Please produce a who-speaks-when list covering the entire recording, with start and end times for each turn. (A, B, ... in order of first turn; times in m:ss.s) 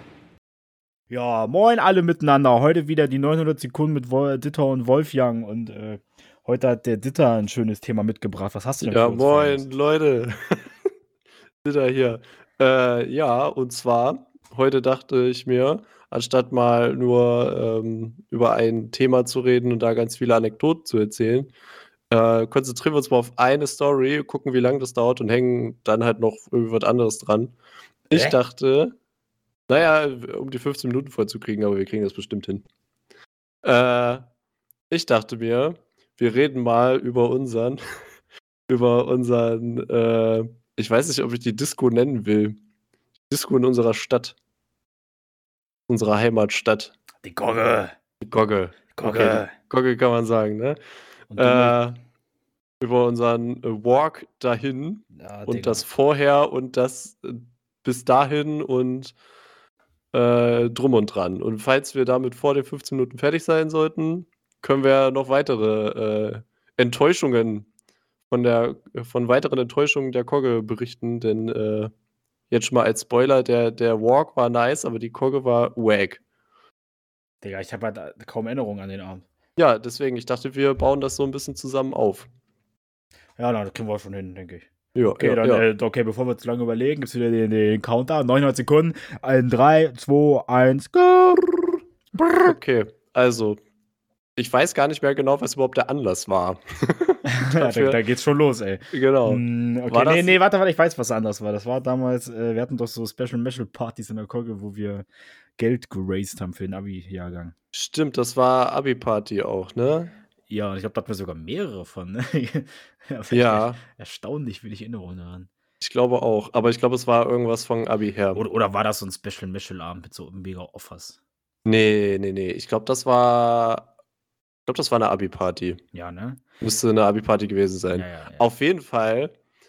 0:01.1-0:09.7 A
0:08.8-0:10.6 B
0:11.6-0:21.5 B
0:22.1-0:27.6 B
0:28.1-0:28.4 A
0:28.1-0:28.9 B
0:29.7-0:32.6 B
0:33.6-0:34.2 B
0:34.9-0:37.8 B
0:38.7-0:42.6 B
0:43.3-0:44.3 B
0:45.9-0:46.9 B
0:47.2-0:47.9 A
0:48.2-0:50.8 B
0:49.0-0:49.5 A
0:51.3-0:51.9 A
0:51.3-0:52.0 B
0:52.8-0:59.1 B
0:55.1-0:55.8 A
1:00.1-1:07.7 B
1:08.3-1:11.9 B
1:12.5-1:16.2 B
1:17.4-1:19.2 A
1:19.6-1:22.3 B
1:23.4-1:32.6 A
1:24.9-1:25.6 B
1:32.4-1:33.6 B
1:34.4-1:38.0 B
1:37.2-1:47.5 A
1:38.9-1:40.4 B
1:47.7-1:50.1 B
1:50.5-1:55.5 A
1:53.3-1:53.8 B
1:55.8-1:58.4 B
1:58.3-2:01.2 A
2:01.6-2:03.9 B
2:04.7-2:05.8 B
2:05.9-2:06.4 A
2:06.6-2:09.3 B
2:07.9-2:08.4 A